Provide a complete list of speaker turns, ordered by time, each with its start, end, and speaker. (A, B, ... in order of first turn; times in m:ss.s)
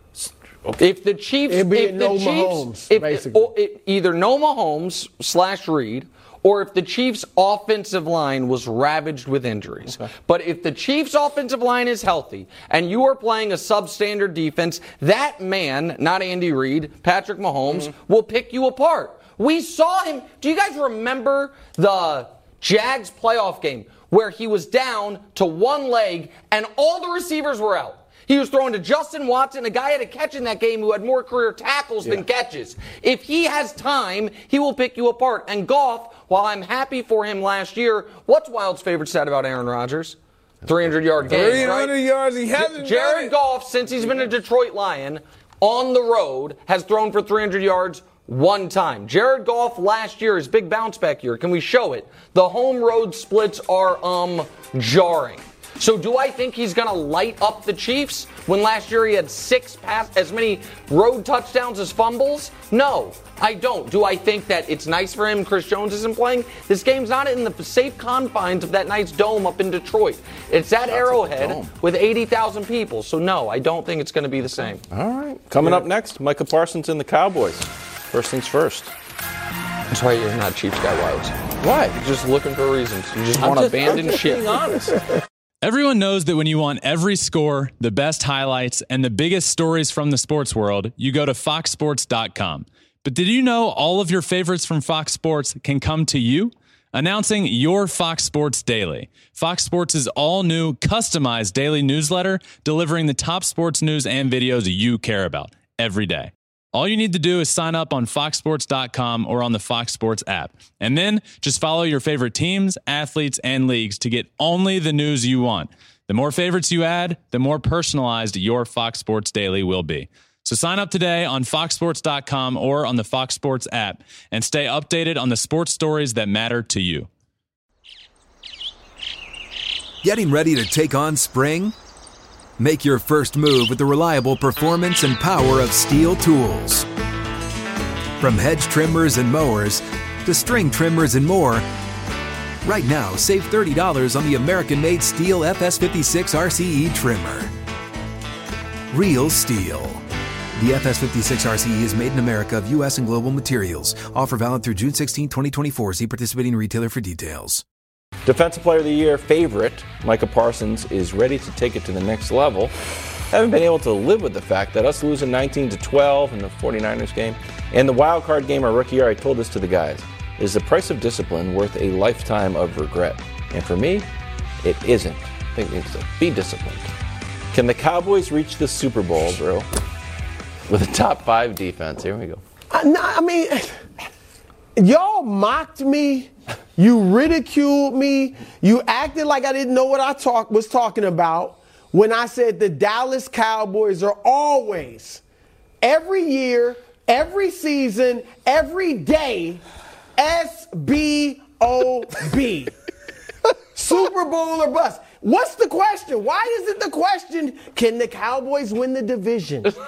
0:00.2-0:00.8 A
0:00.8-0:42.0 B
0:01.5-0:03.5 C
0:41.3-0:43.3 D
0:42.6-1:14.8 B
1:10.9-1:11.7 A
1:14.9-1:18.9 A
1:19.9-1:21.4 B
1:21.6-1:22.0 A
1:21.9-1:24.5 B
1:23.4-1:25.0 A
1:25.6-2:07.1 E
2:10.0-2:11.7 F
2:12.6-2:16.9 F
2:18.2-2:21.7 F
2:22.6-2:27.5 F
2:28.9-2:30.0 F
2:30.6-2:37.6 F
2:38.2-2:42.7 A
2:43.3-2:54.1 A
2:54.6-2:56.9 A
2:57.5-2:59.7 A
3:00.7-3:02.4 A
3:02.7-3:03.8 C
3:04.8-3:15.2 C
3:15.8-3:19.6 C
3:20.2-3:22.7 C
3:23.8-3:29.7 C